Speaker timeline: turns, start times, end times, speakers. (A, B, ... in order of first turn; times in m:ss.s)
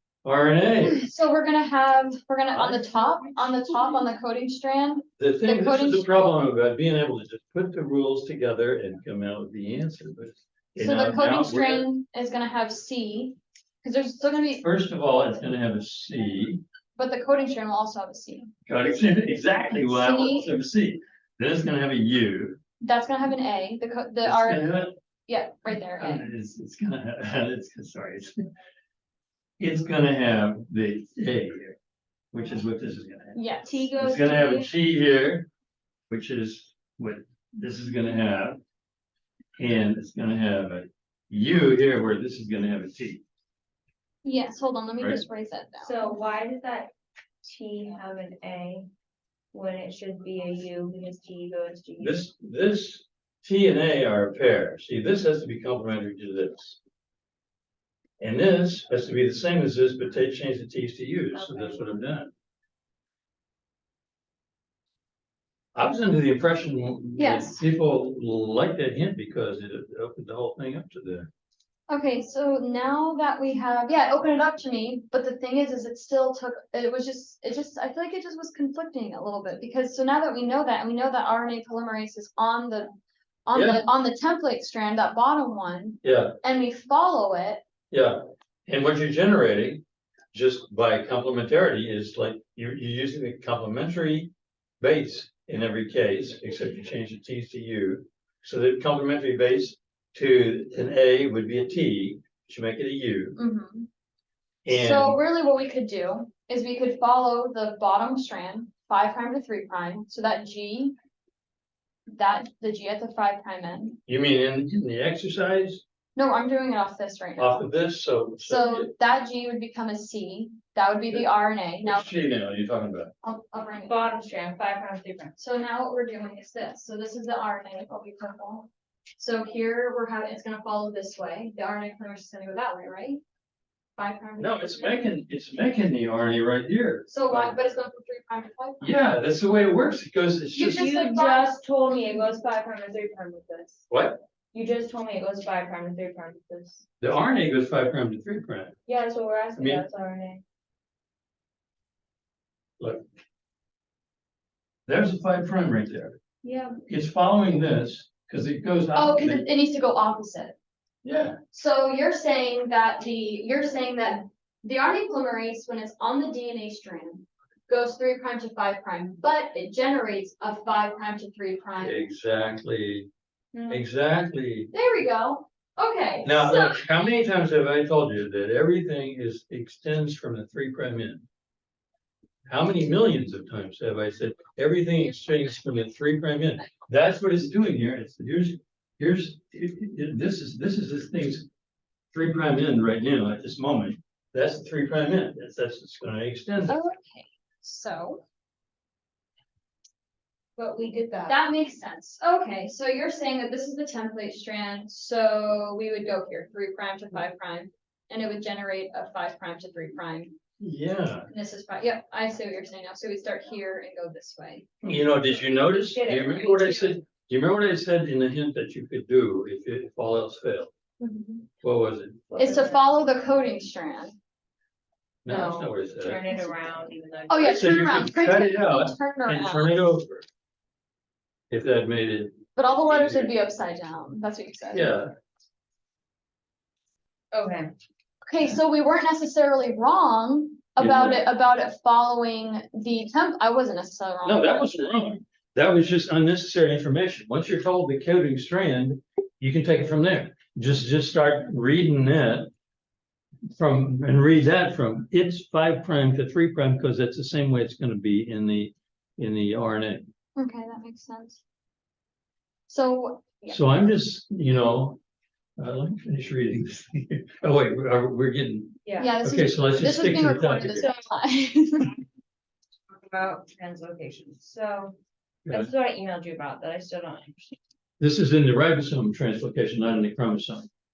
0:00.2-0:01.0 A
0:00.8-0:06.3 B
0:02.5-0:02.8 A
0:05.2-0:11.9 A
0:10.8-0:14.6 B
0:14.6-0:16.6 A
0:17.0-0:18.5 B
0:18.7-0:22.6 A
0:19.9-0:20.5 B
0:22.8-0:24.6 B
0:24.2-0:24.9 A
0:25.3-0:26.3 B
0:25.7-0:28.5 A
0:29.6-0:31.8 A
0:32.3-0:35.5 A
0:33.4-0:34.0 B
0:33.7-0:34.7 C
0:36.1-0:38.6 A
0:39.6-0:43.2 A
0:44.2-0:45.9 B
0:45.8-0:46.9 C
0:47.4-0:48.9 C
0:49.5-0:52.2 C
0:52.0-0:56.8 A
0:58.2-1:02.3 A
1:01.3-1:02.0 C
1:05.7-1:11.3 A
1:07.2-1:07.6 B
1:11.9-1:22.9 B
1:23.4-1:27.6 B
1:23.5-1:23.8 A
1:26.0-1:26.4 A
1:27.9-1:43.4 A
1:43.4-1:43.9 B
1:44.6-1:45.2 A
1:44.7-1:50.9 B
1:52.1-1:54.0 B
1:54.0-1:55.8 A
1:56.2-1:57.6 B
1:57.4-1:58.9 A
1:58.4-2:02.0 B
2:01.8-2:03.1 A
2:03.2-2:03.9 B
2:03.9-2:05.4 C
2:05.4-2:13.2 B
2:14.0-2:15.0 B
2:14.4-2:17.6 A
2:17.1-2:18.9 B
2:18.8-2:20.9 A
2:20.5-2:21.5 B
2:20.7-2:23.9 C
2:23.9-2:24.2 A
2:24.5-2:26.8 C
2:27.0-2:28.8 A
2:28.8-2:30.4 C
2:29.6-2:29.8 A
2:34.9-2:36.2 A
2:36.4-2:36.8 C
2:36.9-2:39.4 A
2:38.9-2:40.5 B
2:41.0-2:41.4 A
2:41.5-2:52.0 B
2:51.8-2:53.1 A
2:53.5-2:53.8 C
2:53.7-2:54.7 A
2:54.7-2:56.8 B
2:56.2-3:01.2 A
3:02.5-3:11.5 A
3:12.1-3:16.8 A
3:16.7-3:18.2 B
3:20.6-3:21.3 C
3:21.2-3:30.4 B
3:30.6-3:31.3 A
3:31.3-3:34.6 B
3:34.8-3:40.7 A
3:35.8-3:37.0 C
3:41.0-3:41.5 B
3:41.6-3:42.2 A
3:42.3-3:42.8 C
3:42.4-3:44.2 B
3:45.2-3:46.2 A
3:45.2-3:48.0 C
3:47.3-3:49.8 B
3:47.4-3:50.2 A
3:51.5-3:53.3 A
3:52.6-3:54.9 B
3:54.7-3:55.1 A
3:57.3-3:57.7 C
3:58.3-4:04.8 B
4:00.8-4:01.2 A
4:04.2-4:12.5 A
4:13.5-4:20.0 A
4:20.4-4:21.4 B
4:22.7-4:23.6 B
4:23.5-4:25.0 A
4:25.6-4:30.9 A
4:28.8-4:29.1 C
4:29.0-4:32.0 B
4:32.9-4:35.0 C
4:35.5-4:37.6 C
4:38.0-4:40.7 A